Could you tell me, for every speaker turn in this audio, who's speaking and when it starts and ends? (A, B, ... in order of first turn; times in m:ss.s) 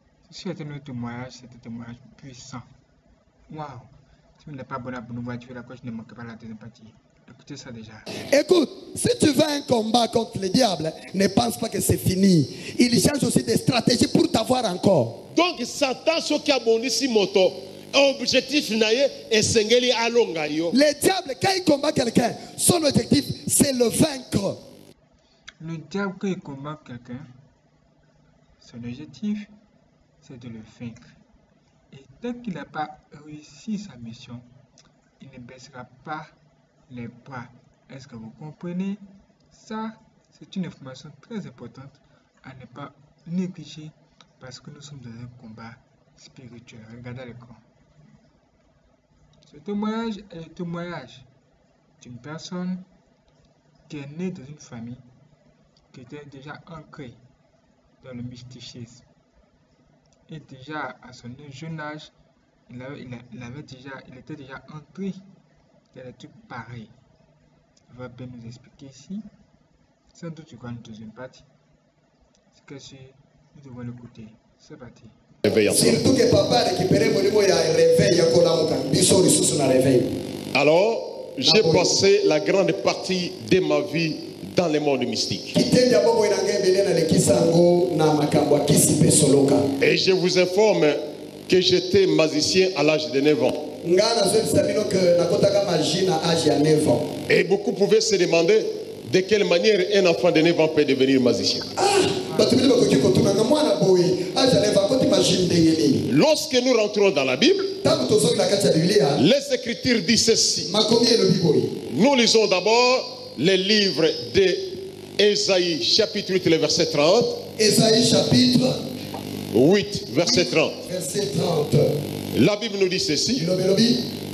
0:00.3-0:02.6 A
0:03.5-0:08.1 A
0:08.3-0:15.2 B
0:15.3-0:20.8 C
0:20.7-0:24.6 B
0:25.6-0:27.3 A
0:28.6-0:29.5 A
0:30.2-0:31.1 A
0:31.9-0:34.4 A
0:35.2-0:36.3 A
0:36.9-0:47.6 A
0:49.5-0:51.3 A
0:52.0-0:52.8 A
0:53.9-0:55.0 A
0:55.9-0:57.2 A
0:58.0-0:59.0 A
1:00.3-1:02.1 A
1:02.7-1:05.2 A
1:05.9-1:06.9 A
1:07.9-1:09.2 A
1:10.1-1:11.4 A
1:12.5-1:15.1 A
1:15.4-1:16.0 C
1:15.7-1:20.1 B
1:20.5-1:25.6 C
1:21.4-1:21.9 B
1:25.5-1:29.7 B
1:29.8-1:33.6 C
1:33.8-1:37.1 B
1:37.3-1:41.7 C
1:41.8-1:46.0 B
1:46.1-1:47.7 C
1:47.8-1:49.2 B
1:49.2-1:50.7 C
1:50.6-1:51.8 B
1:51.9-1:57.4 C
1:57.6-1:58.8 B
1:59.5-2:00.8 C
2:00.3-2:01.9 B
2:02.3-2:03.4 C
2:03.4-2:04.0 B